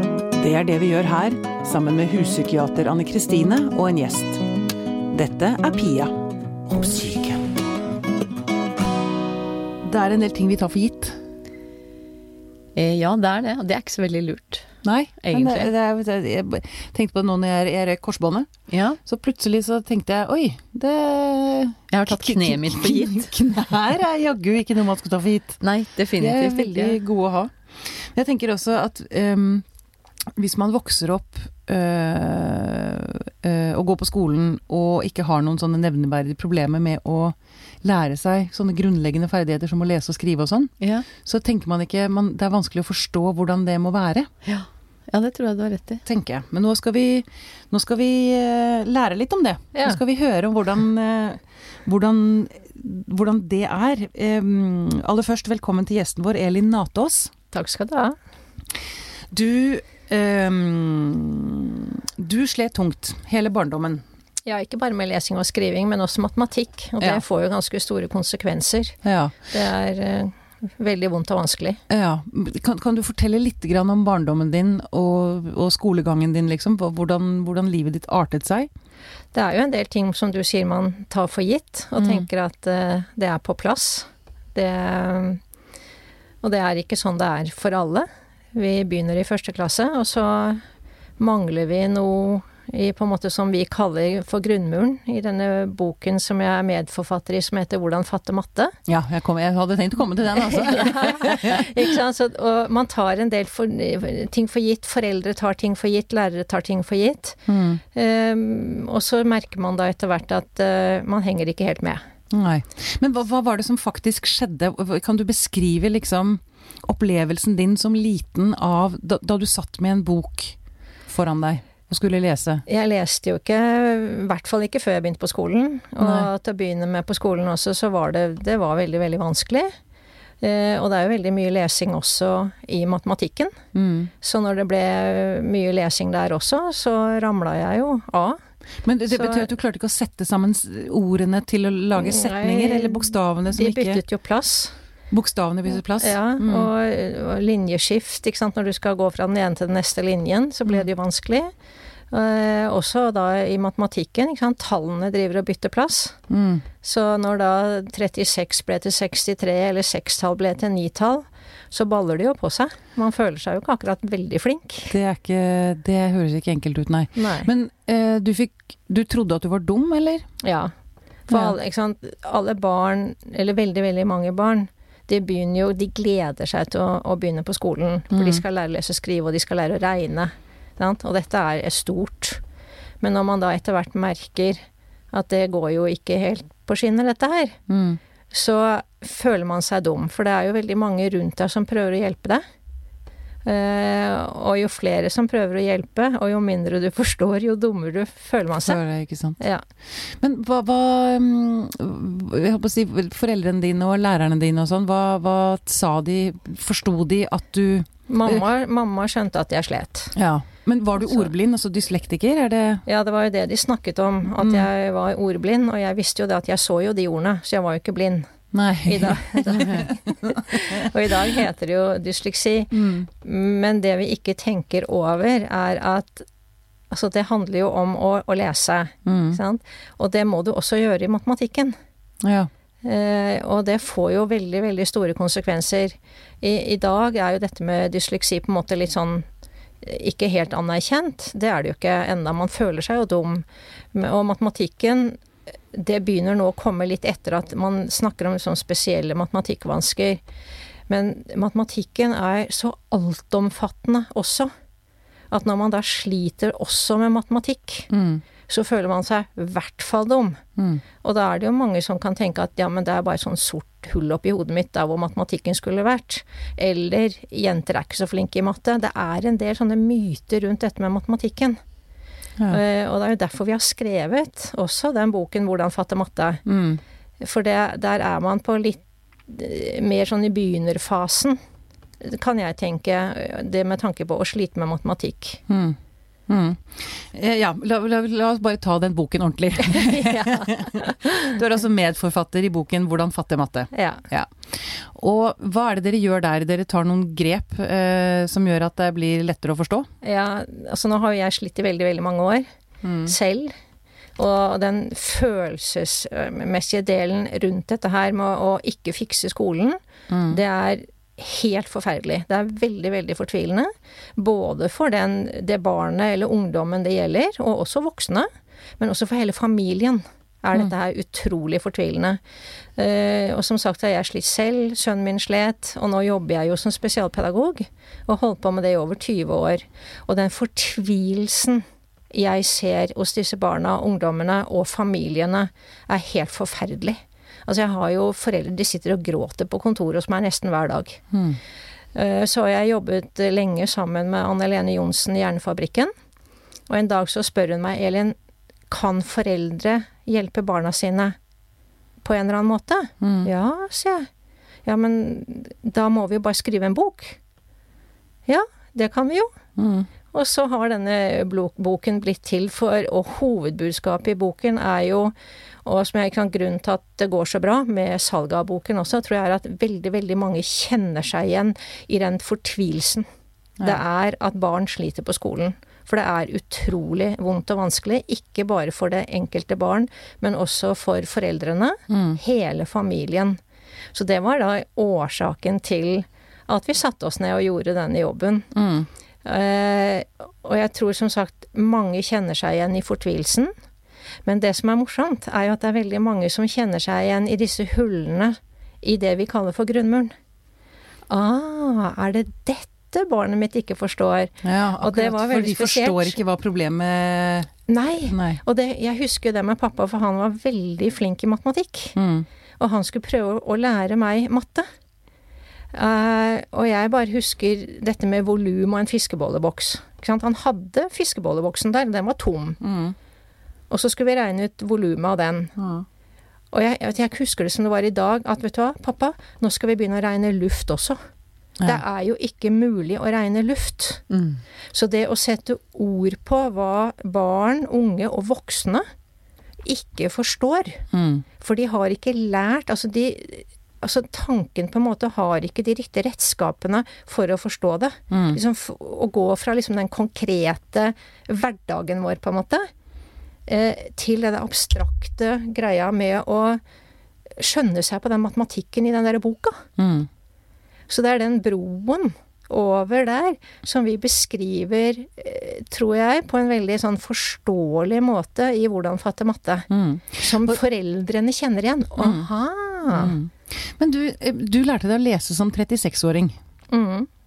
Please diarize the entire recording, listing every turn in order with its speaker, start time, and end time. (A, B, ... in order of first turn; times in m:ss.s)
0:00.3-0:04.4 A
0:05.1-0:06.1 A
0:06.7-0:07.4 A
0:09.8-0:11.2 A
0:12.7-0:15.7 B
0:14.8-0:18.5 A
0:18.7-0:19.0 B
0:19.0-0:25.6 A
0:21.9-0:23.3 B
0:25.6-0:27.0 B
0:26.2-0:29.6 A
0:30.4-0:40.7 A
0:40.8-0:41.0 B
0:41.2-0:44.3 A
0:44.4-0:46.0 B
0:46.0-0:57.3 A
0:57.5-0:58.2 C
0:59.3-1:04.0 A
1:04.4-1:09.0 C
1:09.0-1:09.4 A
1:09.5-1:11.8 C
1:11.9-1:18.7 A
1:19.3-1:25.4 C
1:22.0-1:22.2 A
1:26.4-1:30.6 C
1:31.2-1:38.7 C
1:38.9-1:41.7 A
1:40.6-1:47.4 C
1:47.5-1:47.8 A
1:47.9-1:52.0 C
1:52.3-2:02.6 A
2:02.6-2:09.7 C
2:06.0-2:06.3 A
2:10.4-2:13.5 C
2:13.7-2:14.1 A
2:14.2-2:18.4 C
2:18.8-2:24.0 A
2:19.1-2:19.5 C
2:22.0-2:24.7 C
2:25.1-2:26.7 A
2:26.0-2:31.5 C
2:32.1-2:36.2 C
2:36.3-2:36.6 A
2:36.8-2:44.9 C
2:44.9-2:50.3 A
2:47.2-2:47.5 C
2:50.4-2:50.7 C
2:51.3-3:02.4 C
2:51.3-2:51.5 A
2:58.1-2:58.4 A
3:03.0-3:07.6 C
3:07.7-3:08.0 A
3:08.3-3:12.4 C
3:13.4-3:18.8 C
3:18.6-3:19.4 A
3:19.4-3:19.6 C
3:20.0-3:28.4 A
3:28.1-3:30.1 C
3:30.2-3:32.8 A
3:31.0-3:31.3 C
3:32.8-3:38.3 C
3:34.4-3:34.7 A
3:38.5-3:40.7 A
3:38.8-3:46.2 C
3:42.7-3:43.1 A
3:46.9-3:51.8 C
3:49.0-3:49.4 A
3:52.2-3:52.5 A
3:52.8-3:59.2 C
3:59.8-4:05.2 C
4:05.7-4:10.2 C
4:10.9-4:14.5 C
4:15.3-4:17.9 C
4:17.9-4:18.2 A
4:18.5-4:20.4 C
4:20.6-4:20.8 A
4:21.0-4:31.6 C
4:32.5-4:36.4 C
4:36.4-4:36.8 A
4:37.2-4:41.4 C
4:42.0-4:45.4 C
4:45.5-4:45.8 A
4:46.3-4:59.9 A
4:49.9-4:51.0 C
4:53.7-4:54.0 C
5:00.0-5:02.5 C
5:02.8-5:03.1 A
5:03.0-5:03.5 C
5:04.2-5:18.3 C
5:10.1-5:10.4 A
5:18.8-5:22.2 C
5:22.8-5:41.0 C
5:41.1-5:41.4 A
5:41.9-5:45.9 C
5:46.7-5:48.1 C
5:48.7-5:51.2 C
5:52.0-5:54.1 C
5:53.0-5:53.3 A
5:54.6-5:57.2 C
5:58.3-5:59.3 C
5:59.6-5:59.9 A
6:00.1-6:05.1 C
6:05.6-6:13.0 C
6:13.6-6:23.4 C
6:21.9-6:22.2 A
6:23.9-6:28.5 C
6:28.5-6:28.9 A
6:29.2-6:33.5 C
6:34.2-6:40.1 C
6:41.1-6:46.2 C
6:44.4-6:47.5 A
6:47.7-6:52.0 C
6:48.0-6:48.4 A
6:52.0-6:52.2 A
6:52.6-6:54.7 C
6:55.7-7:02.6 C
7:02.6-7:02.9 A
7:03.7-7:05.5 C
7:05.6-7:05.8 A
7:06.5-7:11.0 C
7:11.6-7:14.0 C
7:14.1-7:14.4 B
7:14.7-7:18.8 C
7:19.6-7:20.8 C
7:20.9-7:21.2 A
7:21.4-7:32.7 C
7:28.1-7:28.4 A
7:33.5-7:36.6 C
7:37.4-7:39.6 C
7:39.8-7:40.1 A
7:40.9-7:53.2 C
7:49.7-7:50.6 A
7:52.0-7:52.3 A
7:52.9-7:56.4 A
7:56.7-7:57.1 C